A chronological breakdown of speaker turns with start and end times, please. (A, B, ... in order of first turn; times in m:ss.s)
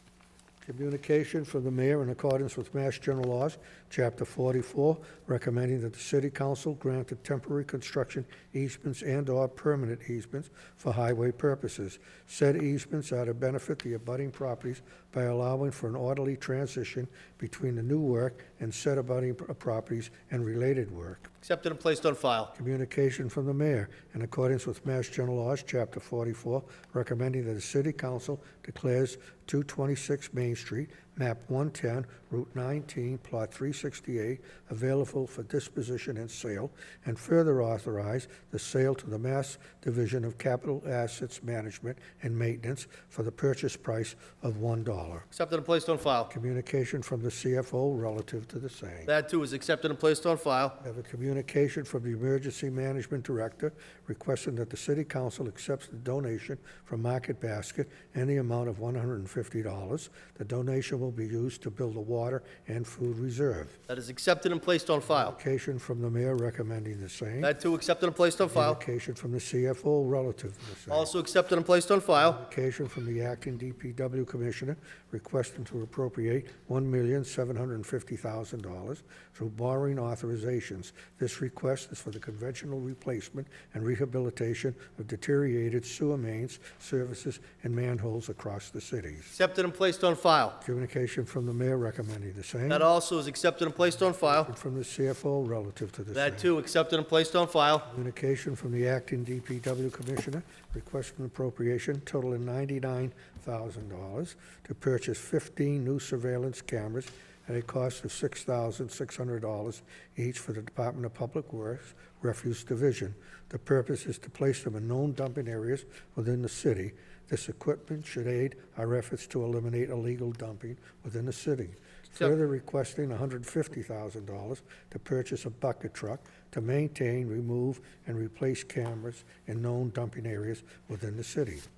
0:00.6-0:21.3 A
0:21.4-0:22.5 B
0:22.5-0:45.3 A
0:45.3-0:46.3 B
0:46.3-0:49.1 A
0:49.1-0:50.8 B
0:50.8-1:03.8 A
1:03.9-1:05.4 B
1:05.1-1:07.5 A
1:07.4-1:08.8 B
1:08.4-1:11.1 A
1:10.9-1:12.4 B
1:12.2-1:29.4 A
1:29.3-1:30.6 B
1:30.6-1:32.9 A
1:32.7-1:34.5 B
1:33.9-1:36.5 A
1:36.1-1:37.9 B
1:37.9-2:11.7 A